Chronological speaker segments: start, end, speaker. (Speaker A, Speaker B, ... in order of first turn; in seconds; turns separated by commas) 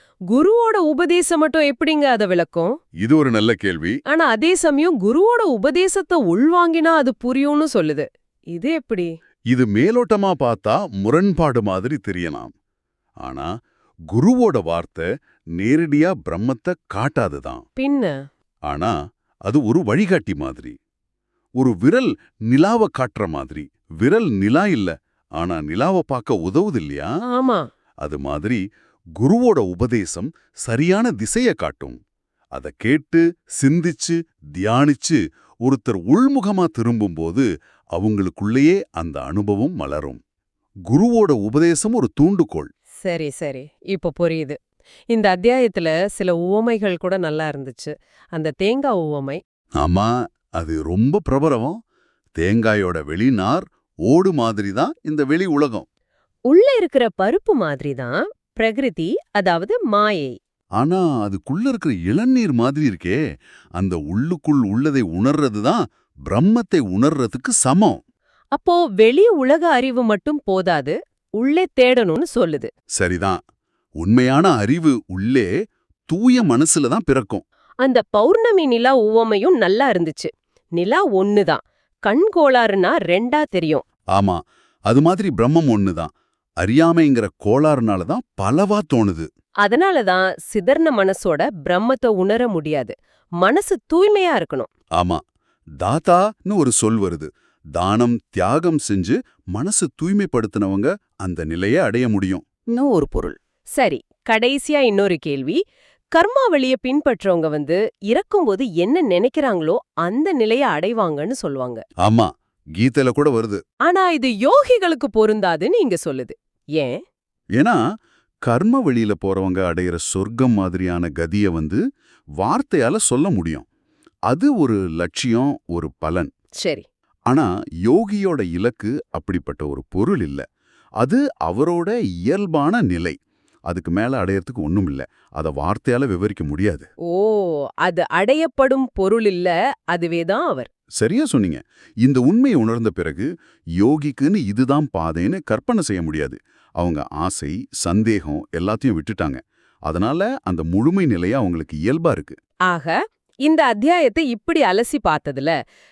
Speaker A: 0.3-2.7, Speaker B: 3.0-4.0, Speaker A: 4.1-9.1, Speaker B: 9.5-12.5, Speaker B: 13.2-13.5, Speaker B: 14.1-15.1, Speaker B: 15.6-17.6, Speaker A: 17.8-18.1, Speaker B: 18.7-18.9, Speaker B: 19.5-20.7, Speaker B: 21.6-27.1, Speaker A: 27.3-27.6, Speaker B: 28.0-28.6, Speaker B: 29.2-32.0, Speaker B: 32.5-40.2, Speaker B: 40.9-42.7, Speaker A: 43.0-44.6, Speaker A: 45.1-49.4, Speaker B: 49.8-51.8, Speaker B: 52.4-55.9, Speaker A: 56.5-60.3, Speaker B: 60.8-63.2, Speaker B: 63.8-68.0, Speaker A: 68.5-72.7, Speaker B: 73.0-73.4, Speaker B: 74.0-75.5, Speaker B: 76.1-77.4, Speaker A: 77.8-83.8, Speaker B: 84.1-89.3, Speaker A: 89.6-94.7, Speaker B: 95.0-95.2, Speaker B: 95.8-102.4, Speaker A: 102.7-105.6, Speaker A: 106.1-111.8, Speaker B: 112.0-113.6, Speaker A: 113.8-117.0, Speaker B: 118.5-121.8, Speaker B: 122.4-123.7, Speaker B: 124.3-126.3, Speaker A: 126.6-126.8, Speaker B: 127.3-130.4, Speaker B: 131.0-133.2, Speaker B: 133.7-136.9, Speaker A: 137.1-140.7, Speaker B: 141.0-152.4, Speaker A: 152.7-155.5